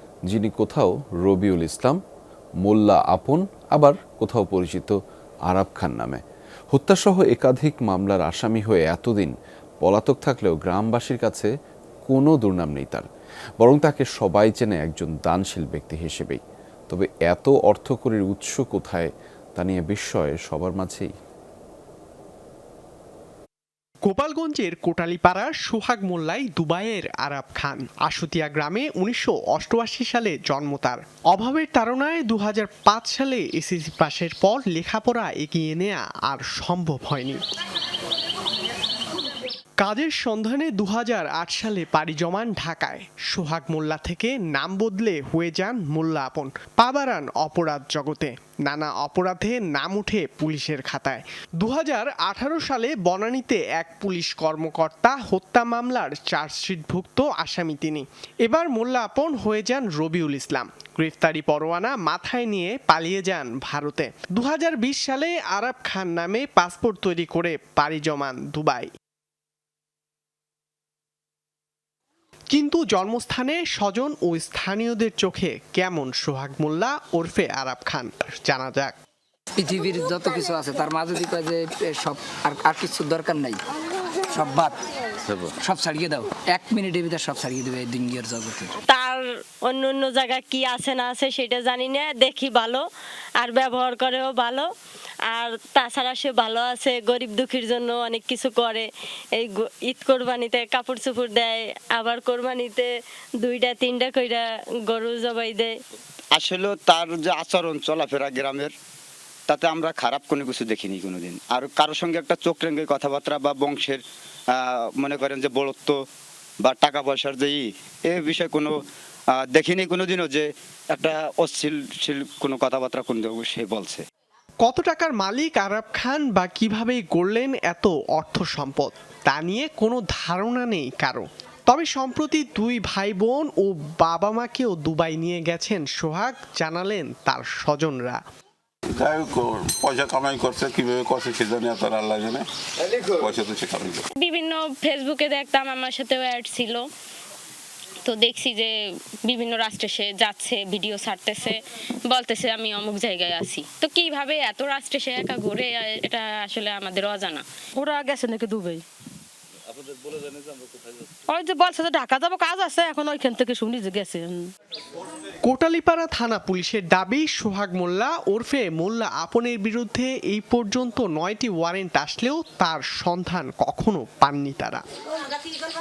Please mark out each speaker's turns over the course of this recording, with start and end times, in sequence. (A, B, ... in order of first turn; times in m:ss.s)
0:00.3-0:02.0 A
0:02.6-0:11.5 A
0:12.1-0:13.1 A
0:13.6-0:21.1 A
0:24.0-0:37.4 B
0:39.8-1:08.9 B
1:12.5-1:18.9 B
1:19.6-1:23.6 C
1:24.3-1:28.7 C
1:28.9-1:32.9 D
1:33.4-1:34.7 D
1:35.3-1:45.8 D
1:46.4-1:48.7 E
1:49.5-1:54.0 E
1:54.5-1:56.0 E
1:56.6-1:58.8 E
1:59.3-2:04.0 E
2:04.6-2:18.2 B
2:18.9-2:24.0 F
2:24.2-2:26.9 G
2:28.0-2:37.4 G
2:37.8-2:38.8 H
2:39.8-2:41.0 F
2:41.3-2:44.5 H
2:45.4-2:54.8 B